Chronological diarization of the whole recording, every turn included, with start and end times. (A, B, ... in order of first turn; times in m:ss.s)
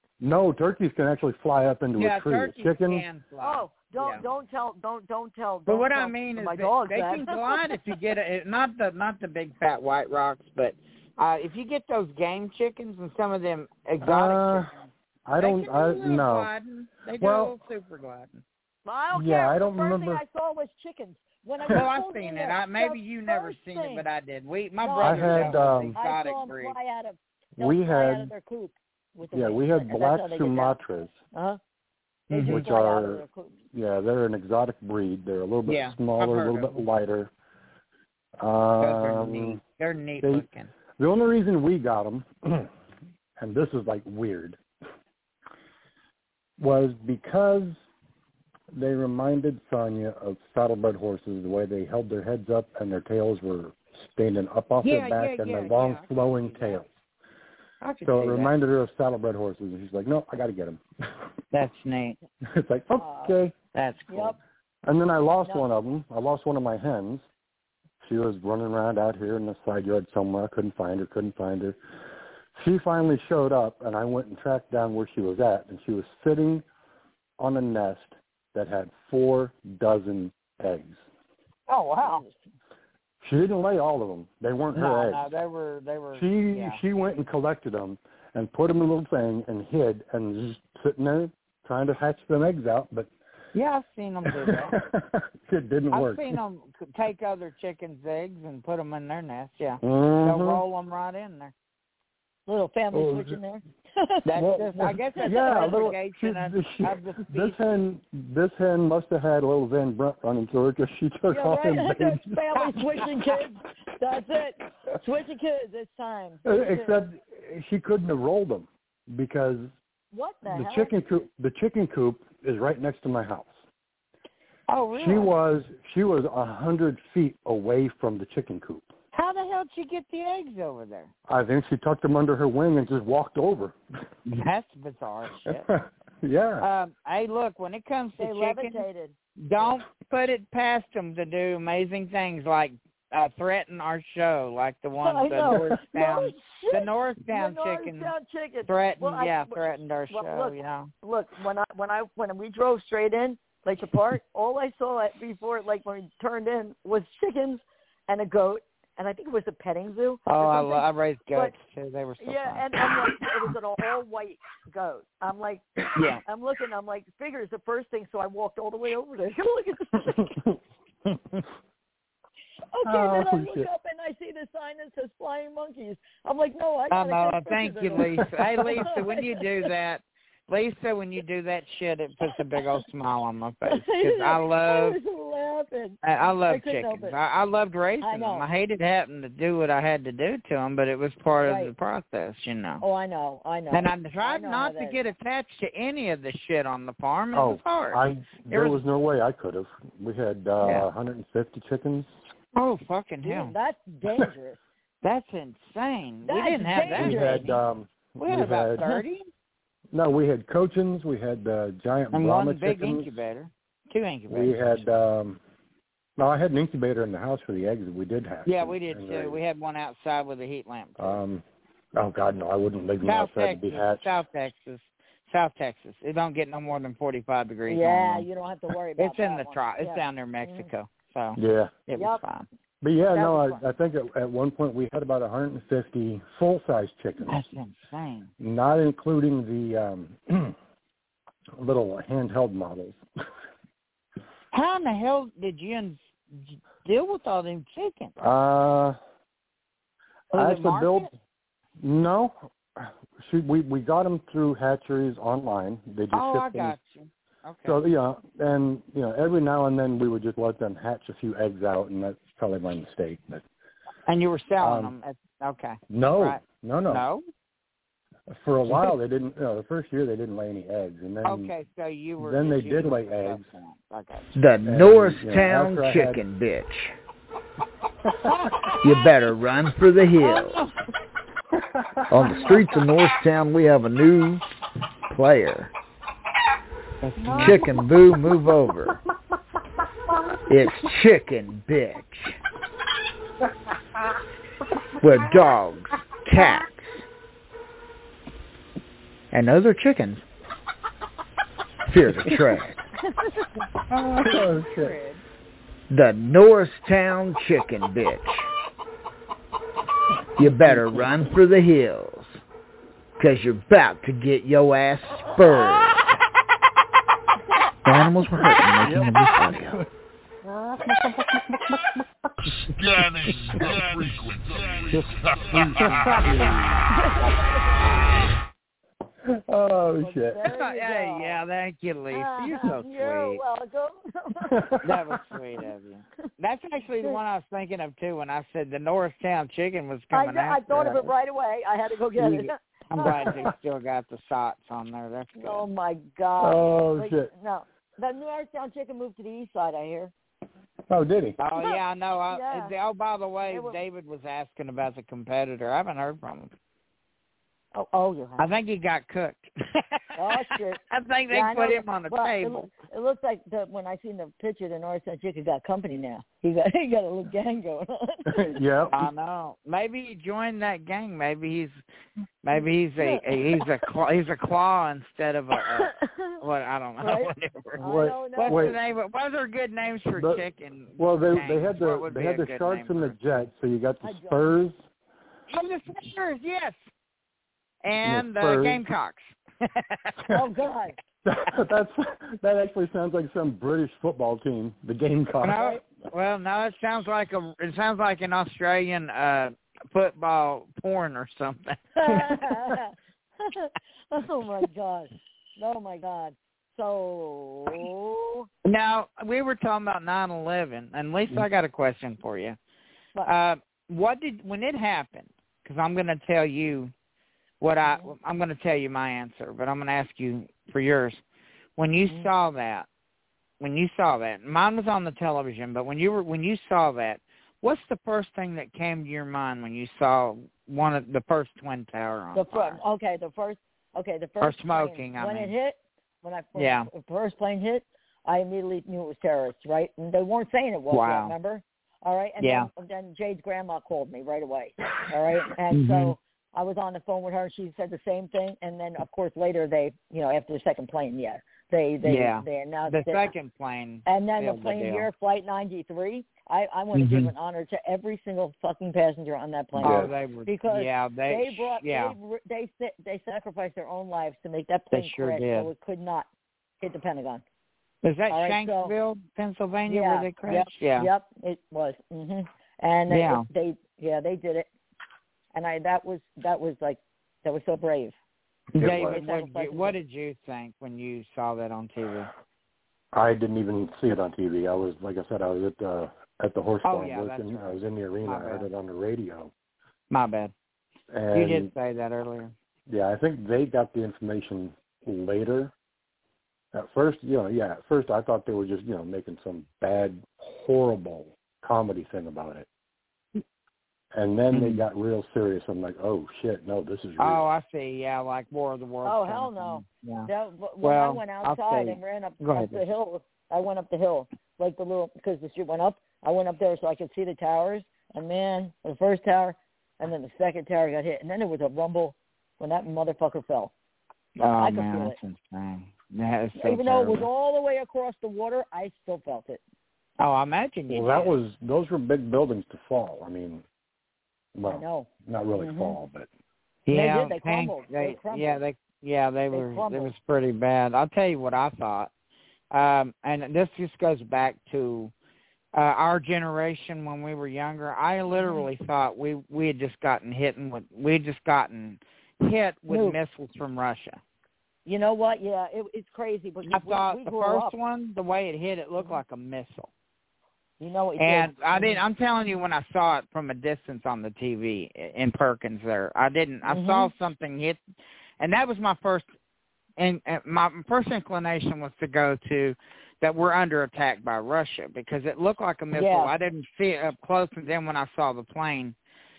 0:00.2-0:03.0 A
0:02.0-0:04.2 B
0:03.4-0:07.8 C
0:05.7-0:18.4 B
0:14.0-0:14.7 A
0:15.2-0:16.5 A
0:17.2-0:17.6 A
0:18.8-0:24.0 C
0:19.1-0:20.2 A
0:21.7-0:26.7 B
0:24.8-0:30.8 C
0:25.0-0:26.0 A
0:27.6-0:28.3 A
0:29.3-0:31.2 A
0:31.3-0:31.6 C
0:32.3-0:32.6 B
0:32.3-0:33.6 C
0:32.4-0:37.3 A
0:35.7-0:36.8 B
0:38.4-0:39.6 A
0:38.8-0:40.7 B
0:41.0-0:42.7 A
0:43.4-0:44.6 A
0:46.6-0:47.8 A
0:48.7-0:56.9 A
0:54.8-0:56.9 B
0:57.8-0:58.5 B
0:58.0-1:00.8 A
1:01.5-1:02.2 B
1:02.4-1:03.5 A
1:03.0-1:03.4 C
1:03.7-1:04.4 B
1:04.1-1:04.4 C
1:04.8-1:07.2 A
1:08.0-1:11.8 A
1:12.5-1:16.6 A
1:17.4-1:21.0 A
1:21.7-1:22.2 B
1:22.0-1:22.4 C
1:23.2-1:25.3 A
1:24.7-1:26.8 B
1:26.1-1:33.1 A
1:33.5-1:34.8 B
1:34.2-1:36.4 A
1:35.9-1:41.5 B
1:39.8-1:40.6 A
1:42.5-1:44.2 C
1:42.9-1:43.4 A
1:44.2-1:47.6 B
1:44.4-1:53.1 A
1:44.8-1:45.9 C
1:51.3-1:57.0 C
1:56.4-1:59.7 A
2:00.1-2:00.9 C
2:00.5-2:03.5 A
2:04.7-2:05.3 B
2:04.9-2:08.9 A
2:09.1-2:11.1 B
2:11.3-2:13.8 A
2:14.2-2:15.7 B
2:15.4-2:16.7 A
2:16.6-2:18.8 B
2:18.2-2:19.8 C
2:19.4-2:28.1 B
2:25.0-2:41.5 C
2:25.5-2:25.7 A
2:28.6-2:30.9 B
2:40.3-2:43.2 B
2:42.2-2:45.6 C
2:45.9-2:46.2 B
2:46.2-2:50.3 C
2:50.0-2:50.6 A
2:52.7-2:59.4 C
2:52.8-2:53.7 A
2:56.9-3:05.0 B
3:03.7-3:07.1 C
3:06.0-3:12.8 B
3:08.0-3:08.5 C
3:11.4-3:11.7 C
3:12.8-3:15.0 C
3:13.7-3:18.8 B
3:17.3-3:22.1 A
3:20.6-3:20.9 B
3:22.5-3:23.5 B
3:23.2-3:24.6 C
3:25.0-3:27.6 B
3:26.2-3:27.5 C
3:26.9-3:28.8 A
3:28.2-3:29.3 B
3:29.9-3:33.1 A
3:32.1-3:34.8 B
3:34.3-3:35.4 A
3:36.2-3:39.4 A
3:38.4-3:41.2 B
3:41.0-3:41.4 A
3:41.9-3:44.0 A
3:43.0-3:48.3 B
3:47.7-3:50.7 C
3:49.0-3:52.5 B
3:51.4-3:51.7 A
3:52.8-3:57.4 A
3:53.1-3:53.6 C
3:57.3-3:58.3 B
3:58.4-4:00.6 A
4:01.6-4:03.0 A
4:04.5-4:08.1 B
4:08.2-4:09.0 A
4:10.3-4:11.1 B
4:10.3-4:11.1 A
4:11.8-4:16.8 A
4:16.1-4:17.8 B
4:17.6-4:23.4 A
4:24.1-4:27.2 B
4:24.6-4:24.9 A
4:25.9-4:27.0 A
4:28.3-4:31.5 A
4:31.2-4:34.3 B
4:32.2-4:33.4 A
4:34.4-4:36.9 D
4:34.6-4:36.2 A
4:38.3-4:38.7 B
4:38.8-4:40.6 D
4:40.2-4:40.7 B
4:41.8-4:42.3 A
4:42.1-4:44.4 D
4:45.1-4:45.7 D
4:47.0-4:47.6 B
4:47.4-4:49.0 D
4:50.5-4:52.3 D
4:55.0-4:55.9 D
4:56.2-4:56.7 B
4:59.3-5:00.2 B
5:01.9-5:02.8 D
5:03.1-5:03.4 C
5:03.9-5:05.2 B
5:04.2-5:05.0 A
5:05.9-5:08.4 D
5:10.4-5:12.4 D
5:10.4-5:11.0 A
5:13.2-5:16.1 D
5:17.8-5:19.8 D
5:18.8-5:19.8 A
5:20.5-5:22.0 A
5:22.7-5:26.5 E
5:24.9-5:26.8 B
5:25.8-5:26.5 A
5:26.9-5:27.8 C
5:29.2-5:30.4 A
5:30.0-5:31.4 C
5:30.4-5:33.4 B
5:32.1-5:34.6 C
5:34.5-5:35.2 A
5:34.8-5:41.1 B
5:40.1-5:43.5 C
5:42.2-5:45.6 B
5:43.0-5:43.5 A
5:45.4-5:50.1 C
5:46.4-5:47.3 A
5:50.9-5:51.4 A
5:51.4-5:56.5 B
5:52.3-5:52.7 C
5:53.5-5:53.8 C
5:57.7-5:58.5 C
5:58.4-6:02.7 B
6:00.2-6:08.4 C
6:08.3-6:09.1 A
6:08.9-6:11.8 B
6:12.4-6:17.8 B
6:13.0-6:13.4 C
6:15.8-6:16.4 C
6:17.0-6:18.8 C
6:17.8-6:18.8 A
6:18.4-6:23.1 B
6:20.2-6:20.4 A
6:21.0-6:24.8 A
6:24.0-6:24.5 C
6:25.5-6:26.8 B
6:27.8-6:30.2 B
6:28.0-6:28.8 A
6:30.3-6:31.0 C
6:31.2-6:35.6 A
6:35.4-6:42.4 B
6:35.5-6:35.8 C
6:42.0-6:48.5 C
6:48.6-6:52.6 B
6:53.2-6:56.9 B
6:57.6-7:01.2 B
6:57.8-6:58.1 C
7:01.8-7:02.9 B
7:03.6-7:12.8 B
7:12.3-7:33.3 C
7:14.4-7:15.5 B
7:16.6-7:16.9 B
7:20.9-7:21.3 B
7:22.4-7:22.7 B
7:25.7-7:26.2 B
7:32.0-7:35.1 B
7:34.0-7:46.3 C
7:36.9-7:37.3 B
7:39.8-7:40.1 A
7:39.8-7:42.1 B
7:44.9-7:45.7 B
7:46.8-7:47.4 C
7:48.0-7:51.1 B
7:48.3-7:48.9 C
7:49.9-7:54.7 C
7:53.1-7:53.5 B
7:55.5-7:58.2 C
7:58.7-8:02.3 B
7:58.8-7:59.2 A
7:59.1-7:59.9 C
8:03.1-8:09.5 A
8:06.8-8:08.7 B
8:10.1-8:10.5 B
8:11.1-8:11.7 A
8:11.3-8:12.5 B
8:12.9-8:15.7 A
8:16.7-8:22.7 A
8:24.1-8:27.4 A
8:24.5-8:24.8 B
8:27.2-8:30.3 B
8:29.0-8:43.7 C
8:30.8-8:32.8 B
8:44.4-8:47.3 B
8:44.6-8:45.2 C
8:46.6-8:49.6 C
8:50.2-8:51.3 B
8:50.9-8:53.6 A
8:54.5-8:56.3 A
8:54.6-8:56.0 C
8:56.8-9:02.1 B
8:56.9-8:58.6 C
8:59.5-9:00.1 C
9:02.7-9:05.1 B
9:05.7-9:14.2 B
9:08.3-9:08.7 C
9:12.9-9:13.2 C
9:14.8-9:17.7 C
9:16.6-9:19.9 B
9:20.8-9:22.0 C
9:21.2-9:27.8 B
9:26.6-9:27.1 C
9:28.4-9:29.3 B
9:30.0-9:38.9 B
9:35.9-9:36.3 C